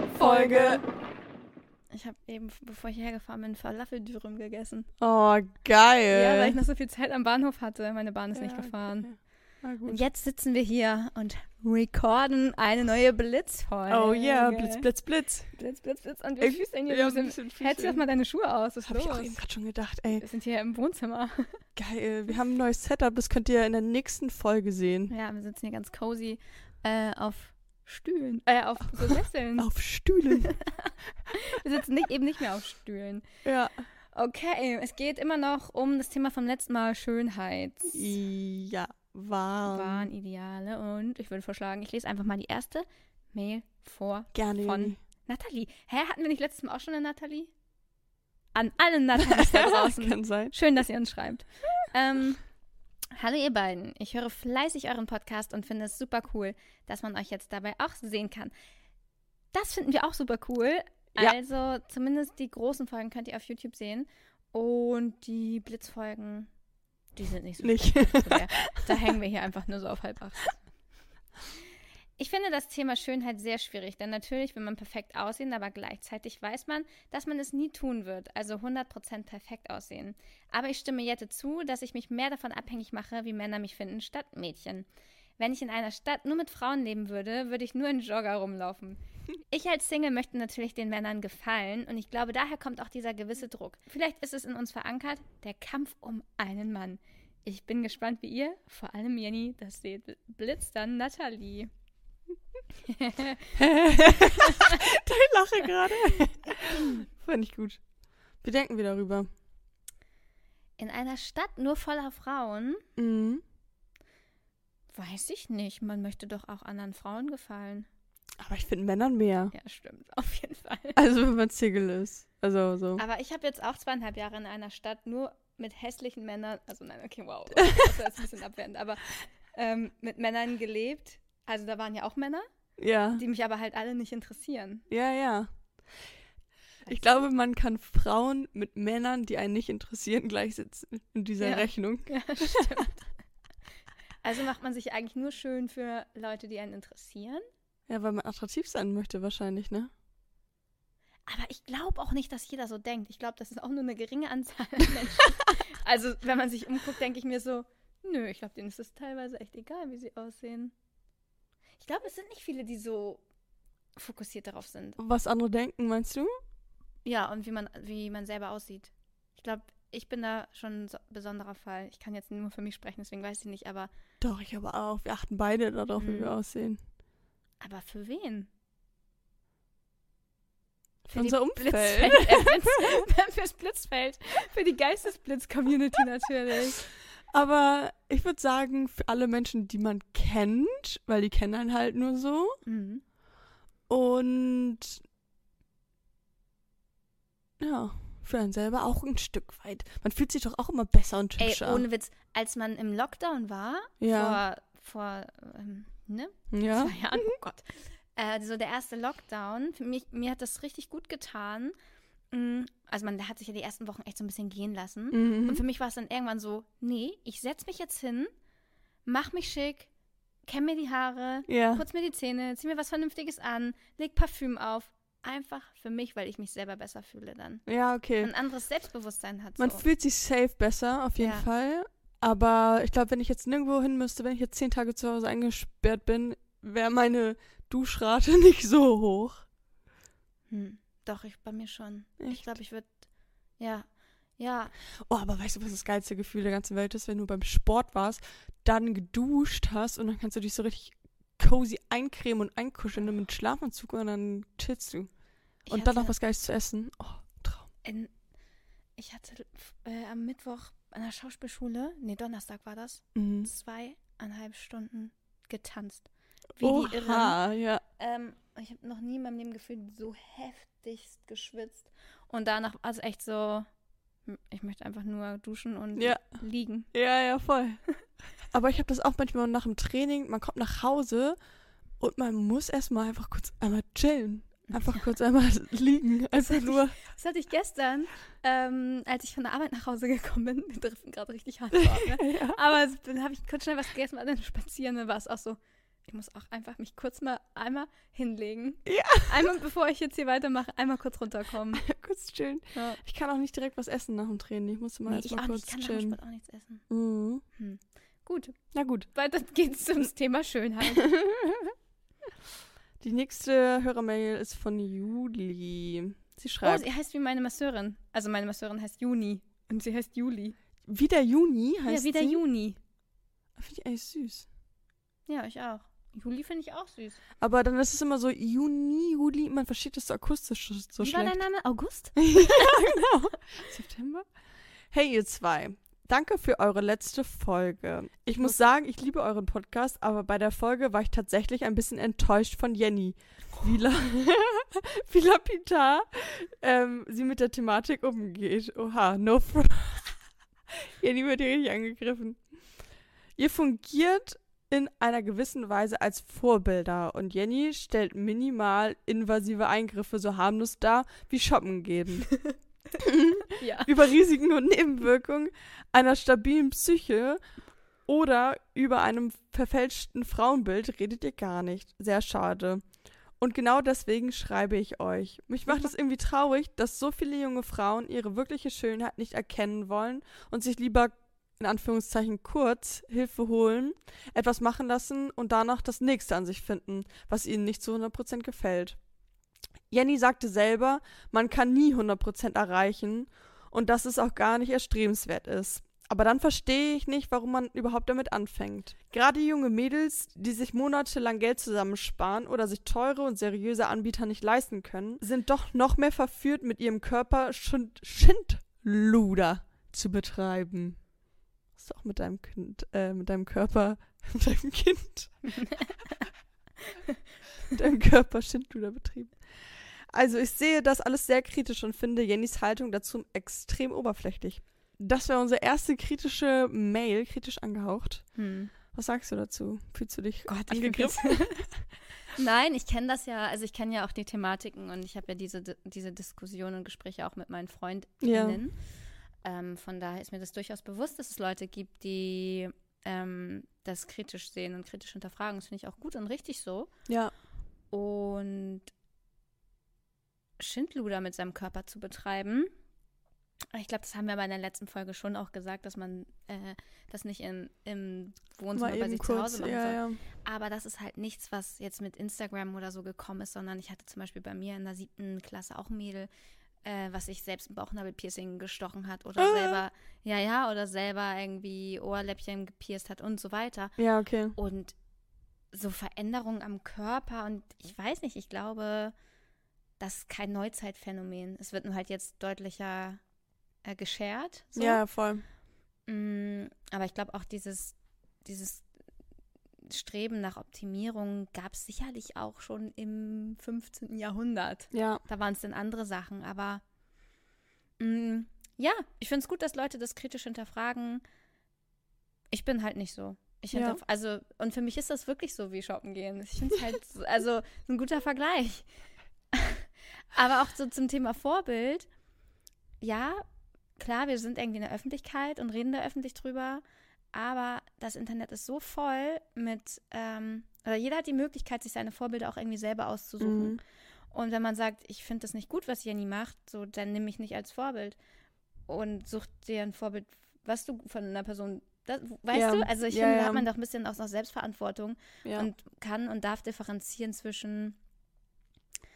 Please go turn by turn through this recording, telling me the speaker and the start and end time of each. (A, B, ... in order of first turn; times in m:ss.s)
0:00.1-0:00.8 A
0:00.1-0:00.8 B
0:01.9-0:04.9 A
0:05.0-0:06.6 B
0:06.1-0:09.1 A
0:08.3-0:10.0 B
0:09.8-0:14.9 A
0:13.9-0:15.5 B
0:15.5-0:19.4 A
0:16.4-0:18.0 B
0:18.8-0:20.2 B
0:20.2-0:21.6 A
0:21.8-0:25.1 B
0:25.1-0:29.7 A
0:29.0-0:30.5 B
0:30.3-0:33.2 A
0:33.4-0:33.8 B
0:34.1-0:38.1 A
0:37.9-0:40.1 B
0:39.6-0:47.5 A
0:44.3-0:45.0 B
0:48.5-0:52.4 A
0:49.2-0:50.5 B
0:53.1-0:58.5 A
0:59.5-1:06.5 A
1:07.1-1:10.6 A
1:07.6-1:09.2 B
1:12.2-1:24.8 A
1:25.4-1:41.7 A
1:42.8-1:44.8 A
1:43.6-1:47.8 B
1:48.4-1:49.3 B
1:50.8-1:52.8 A
1:53.0-1:53.4 B
1:54.9-1:57.9 A
1:58.4-1:59.5 B
1:59.5-2:01.0 A
2:01.0-2:03.0 B
2:03.0-2:12.5 A
2:07.6-2:07.9 B
2:12.8-2:13.2 B
2:13.1-2:14.8 A
2:14.9-2:15.5 B
2:16.8-2:22.8 B
2:21.4-2:23.0 A
2:24.2-2:27.4 A
2:27.9-2:29.9 B
2:31.3-2:40.7 A
2:41.8-2:43.2 A
2:44.0-2:45.0 A
2:45.0-2:46.3 B
2:47.0-2:53.9 A
2:54.2-2:56.8 B
2:56.0-2:56.3 A
2:57.6-2:58.5 A
3:01.0-3:02.8 B
3:01.1-3:06.8 A
3:07.3-3:12.6 B
3:12.6-3:13.0 A
3:13.9-3:15.0 B
3:17.6-3:21.8 B
3:21.4-3:31.7 A
3:24.0-3:24.4 B
3:26.5-3:27.0 B
3:32.3-3:38.3 A
3:35.1-3:35.6 B
3:39.0-3:39.9 A
3:40.5-3:47.6 A
3:41.5-3:41.8 B
3:47.7-3:48.3 B
3:48.2-3:49.8 A
3:49.6-3:59.4 B
3:51.2-3:51.4 A
4:00.5-4:02.9 A
4:02.2-4:02.5 B
4:03.6-4:03.9 A
4:04.4-4:04.7 A
4:05.0-4:15.1 B
4:15.6-4:16.1 A
4:15.7-4:17.7 B
4:17.8-4:18.1 A
4:19.0-4:27.4 A
4:23.1-4:23.5 B
4:26.6-4:27.8 B
4:28.0-4:33.6 A
4:34.3-4:36.9 A
4:36.0-4:36.4 B
4:36.9-4:37.8 B
4:38.5-4:41.4 B
4:42.0-4:47.0 B
4:44.7-4:45.0 A
4:46.3-5:01.8 A
4:51.7-4:52.6 B
4:58.8-4:59.5 B
5:01.8-5:06.2 B
5:02.7-5:03.0 A
5:05.0-5:06.8 A
5:06.9-5:07.4 B
5:07.6-5:08.6 A
5:08.7-5:09.1 B
5:09.1-5:11.1 A
5:11.0-5:11.7 B
5:13.0-5:16.8 B
5:16.6-5:20.6 A
5:20.8-5:22.4 B
5:21.9-5:22.8 A
5:23.6-5:24.4 B
5:25.3-5:27.2 A
5:27.4-5:31.4 B
5:31.0-5:33.1 A
5:32.2-5:34.2 B
5:34.9-5:50.2 B
5:50.7-5:52.4 B
5:53.4-6:02.3 B
6:03.0-6:07.4 B
6:03.5-6:03.9 A
6:08.0-6:12.8 B
6:13.4-6:29.0 B
6:29.9-6:51.0 B
6:51.8-6:55.5 B
6:55.6-6:56.2 A
6:57.7-7:08.2 B
7:08.4-7:08.7 A
7:08.9-7:11.7 B
7:10.5-7:11.6 A
7:12.3-7:18.8 A
7:18.2-7:18.6 B
7:19.4-7:26.9 A
7:27.1-7:27.3 B
7:27.9-7:28.9 A
7:30.6-7:32.7 A
7:33.7-7:46.3 A
7:38.8-7:40.2 B
7:46.8-7:53.9 A
7:49.4-7:49.8 B
7:54.0-7:54.6 B
7:54.6-7:54.9 A
7:55.7-7:59.1 A
8:00.0-8:03.2 A
8:03.8-8:05.0 A
8:04.7-8:05.4 B
8:06.1-8:08.8 A
8:09.8-8:16.8 A
8:14.9-8:15.2 B
8:18.0-8:21.2 A
8:22.5-8:28.9 A
8:23.7-8:24.0 B
8:29.5-8:32.1 A
8:33.0-8:33.4 A
8:34.0-8:43.8 A
8:43.4-8:43.8 B
8:44.3-8:48.2 A
8:48.9-8:58.0 A
8:52.5-8:53.6 B
8:55.4-8:55.7 B